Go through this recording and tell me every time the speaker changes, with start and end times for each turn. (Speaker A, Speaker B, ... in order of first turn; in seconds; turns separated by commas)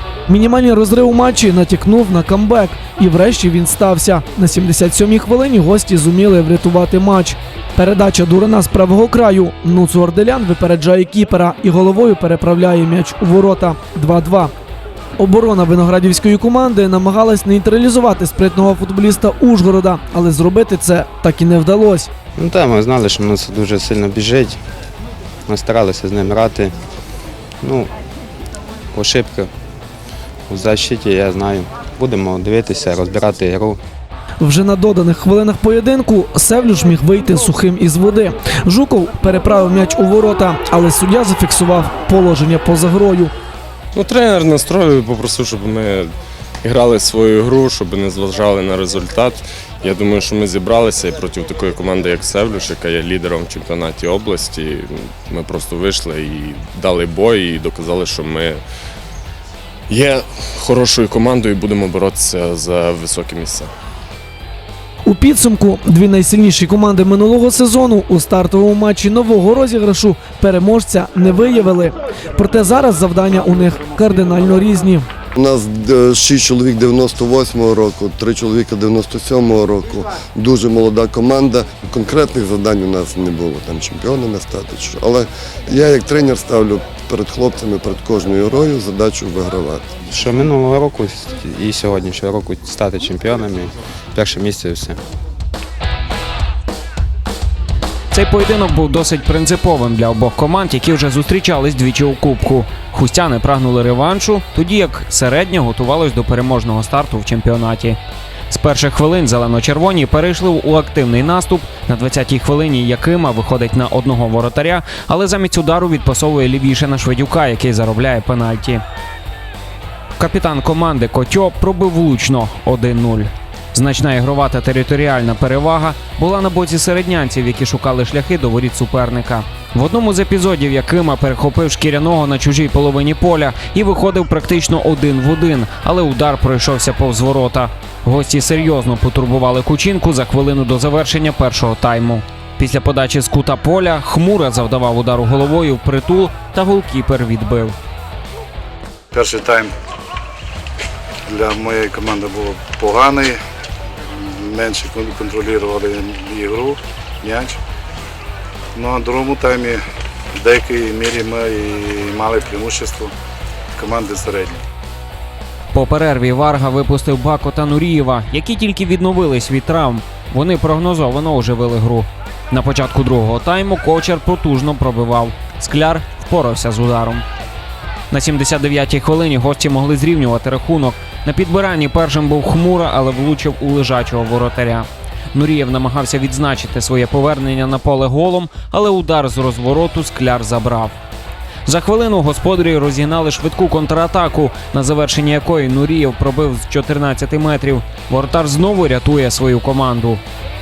Speaker A: 0.3-14.5, Speaker A: 15.2-22.1, Speaker B: 22.4-24.6, Speaker B: 25.5-26.7, Speaker B: 27.6-27.9, Speaker B: 28.9-29.5, Speaker B: 30.5-33.8, Speaker A: 34.4-43.3, Speaker C: 43.9-46.1, Speaker C: 46.6-58.6, Speaker C: 59.9-63.7, Speaker A: 65.1-75.1, Speaker D: 75.3-90.0, Speaker B: 90.1-95.0, Speaker E: 98.1-108.0, Speaker E: 108.5-118.8, Speaker E: 120.2-147.8, Speaker F: 149.1-149.7, Speaker F: 151.3-153.3, Speaker F: 154.4-157.6, Speaker F: 158.8-159.8, Speaker F: 160.4-163.1, Speaker F: 163.8-164.6, Speaker E: 165.7-177.2, Speaker E: 178.1-190.9, Speaker E: 191.7-200.2